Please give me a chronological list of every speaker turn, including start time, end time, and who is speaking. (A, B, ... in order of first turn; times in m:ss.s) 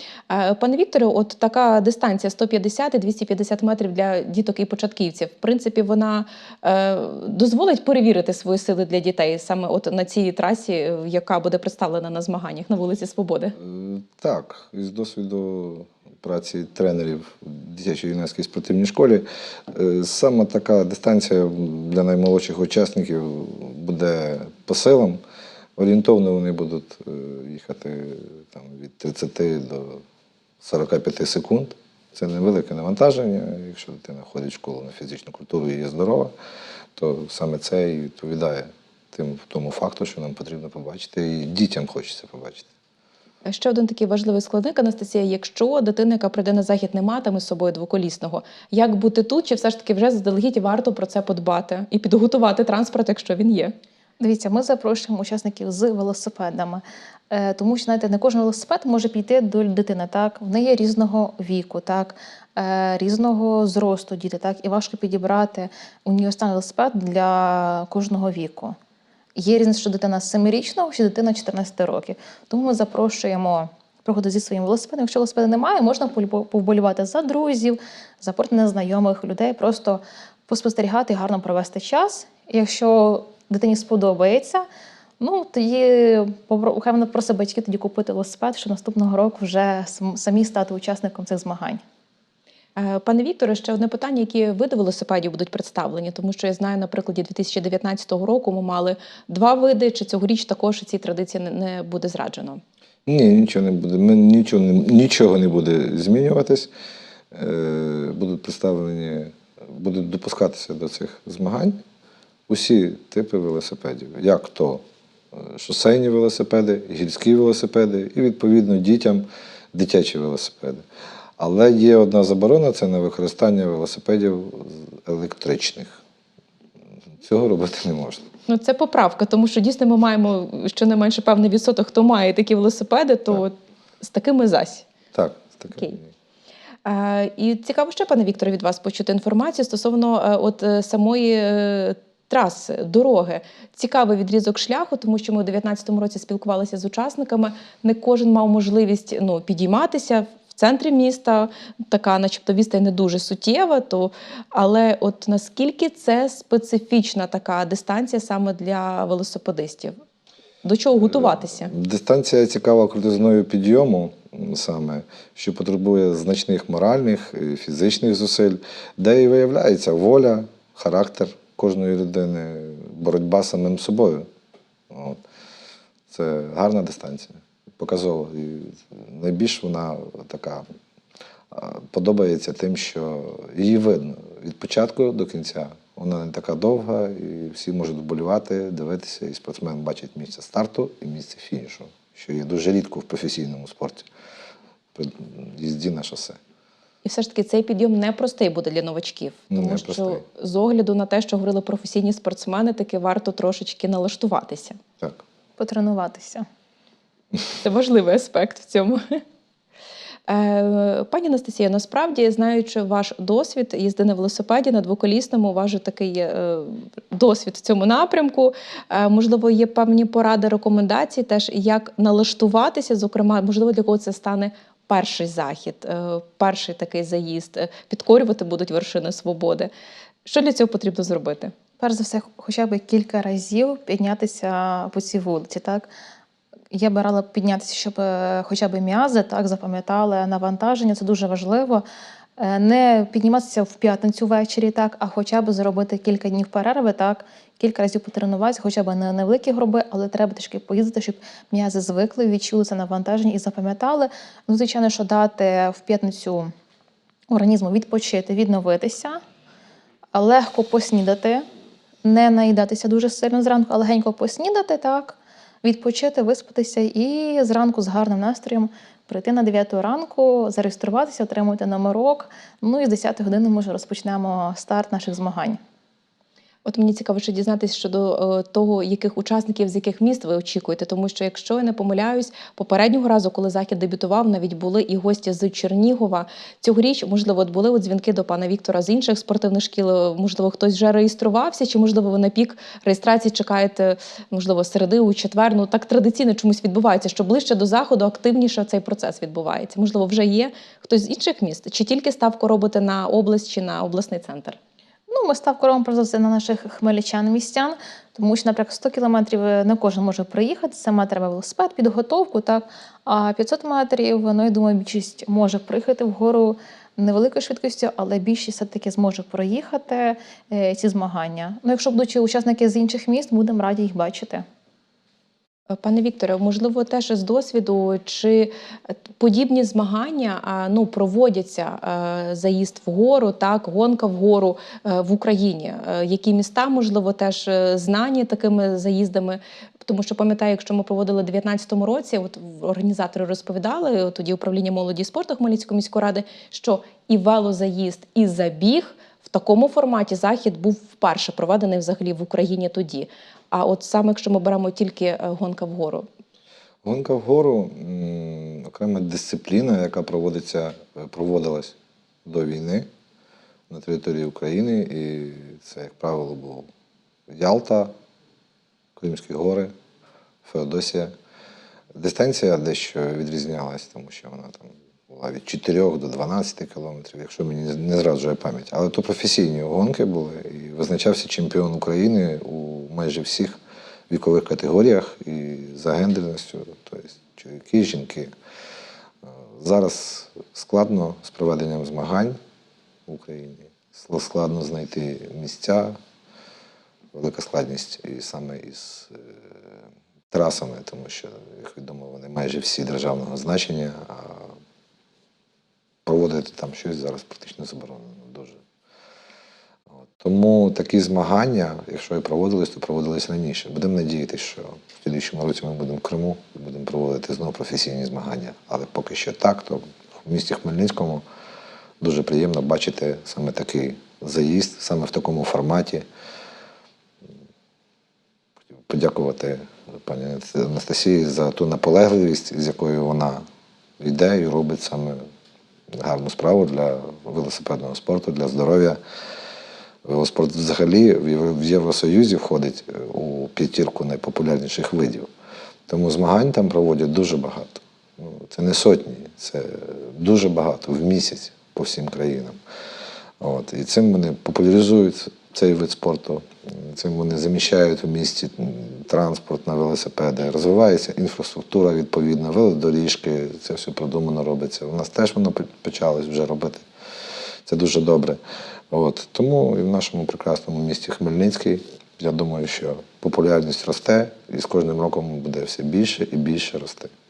0:00.3-0:13.6 A
0:13.6-0:25.2 B
0:25.8-0:30.0 B
0:30.6-0:36.3 B
0:37.0-0:42.7 B
0:43.4-0:53.8 A
0:54.2-1:08.8 C
1:09.4-1:24.7 C
1:25.2-1:31.8 C
1:32.8-1:42.6 A
1:43.1-1:46.7 B
1:47.3-1:51.8 B
1:52.5-2:00.8 B
2:01.4-2:06.0 B
2:07.2-2:08.3 B
2:08.5-2:14.9 A
2:15.1-2:16.1 B
2:16.8-2:40.0 A
2:40.6-2:41.7 A
2:41.0-2:54.3 B
2:54.9-2:55.2 B
2:56.1-3:00.6 B
3:01.5-3:14.1 B
3:15.0-3:16.4 B
3:17.0-3:24.8 A
3:19.5-3:20.2 B
3:25.6-3:26.5 C
3:27.6-3:29.2 A
3:30.3-3:49.7 A
3:50.2-3:51.5 A
3:51.8-3:55.9 C
3:56.7-4:01.8 C
4:02.4-4:16.5 C
4:17.3-4:19.2 C
4:20.1-4:21.4 C
4:22.0-4:35.6 C
4:36.6-5:04.6 A
5:05.1-5:24.4 C
5:25.8-5:56.1 A
5:56.8-6:02.9 B
6:03.7-6:06.7 B
6:07.3-6:07.9 B
6:09.0-6:09.7 B
6:10.4-6:11.1 B
6:12.0-6:23.6 B
6:24.1-6:28.3 B
6:29.6-6:32.4 B
6:33.1-6:36.0 B
6:37.1-6:39.6 B
6:40.3-6:44.6 B
6:46.0-6:48.6 B
6:50.2-7:01.2 B
7:02.0-7:06.0 B
7:08.8-7:13.4 B
7:14.0-7:15.2 B
7:15.9-7:19.0 B
7:20.0-7:25.3 B
7:25.9-7:32.6 B
7:33.4-7:46.8 B
7:47.7-7:48.4 B
7:48.9-7:57.1 B